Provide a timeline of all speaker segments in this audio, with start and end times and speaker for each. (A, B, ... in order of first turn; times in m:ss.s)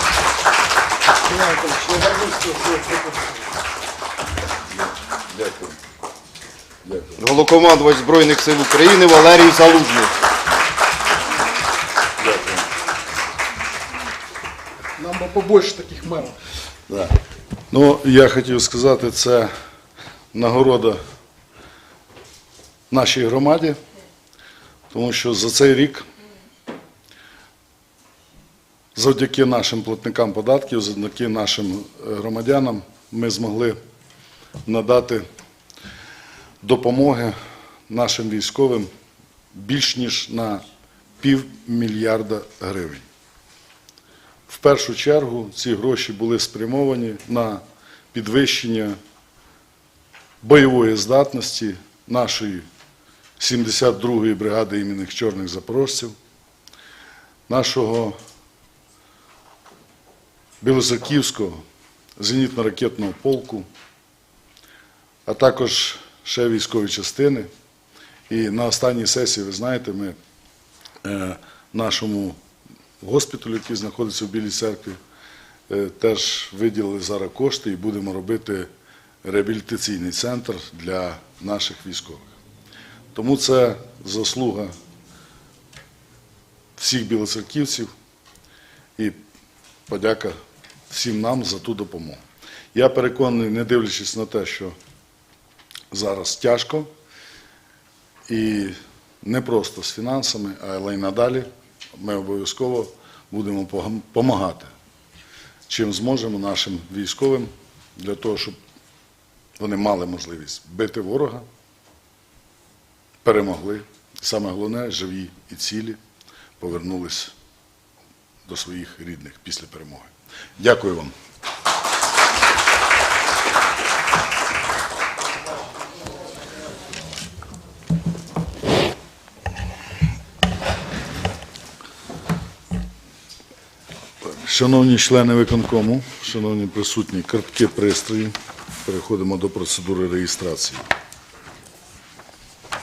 0:01.4-0:03.0 A
0:05.3-0:05.8 B
0:06.8-0:07.2 B
0:07.2-0:10.2 C
0:12.2-0:12.6 B
0:15.0-0:16.3 A
0:16.9-0:17.2 B
0:17.7-0:19.5 B
0:20.3-0:21.0 B
0:22.9-0:23.8 B
0:24.9-0:26.1 B
0:29.0-0:33.8 B
0:34.6-0:35.3 B
0:36.6-0:37.4 B
0:37.9-0:38.9 B
0:39.5-0:40.6 B
0:41.2-0:43.1 B
0:44.5-0:49.0 B
0:50.4-0:52.7 B
0:53.4-0:56.2 B
0:57.5-0:58.2 B
1:00.6-1:01.6 B
1:02.2-1:03.7 B
1:05.3-1:07.5 B
1:08.3-1:10.2 B
1:11.0-1:12.4 B
1:13.0-1:15.0 B
1:15.7-1:18.7 B
1:19.2-1:22.3 B
1:23.1-1:24.7 B
1:26.8-1:27.9 B
1:29.9-1:30.4 B
1:30.9-1:32.2 B
1:32.7-1:34.8 B
1:35.9-1:36.9 B
1:38.3-1:44.7 B
1:45.7-1:48.6 B
1:49.6-1:51.5 B
1:53.2-1:56.0 B
1:56.6-1:57.3 B
1:58.5-2:01.1 B
2:14.2-2:20.9 B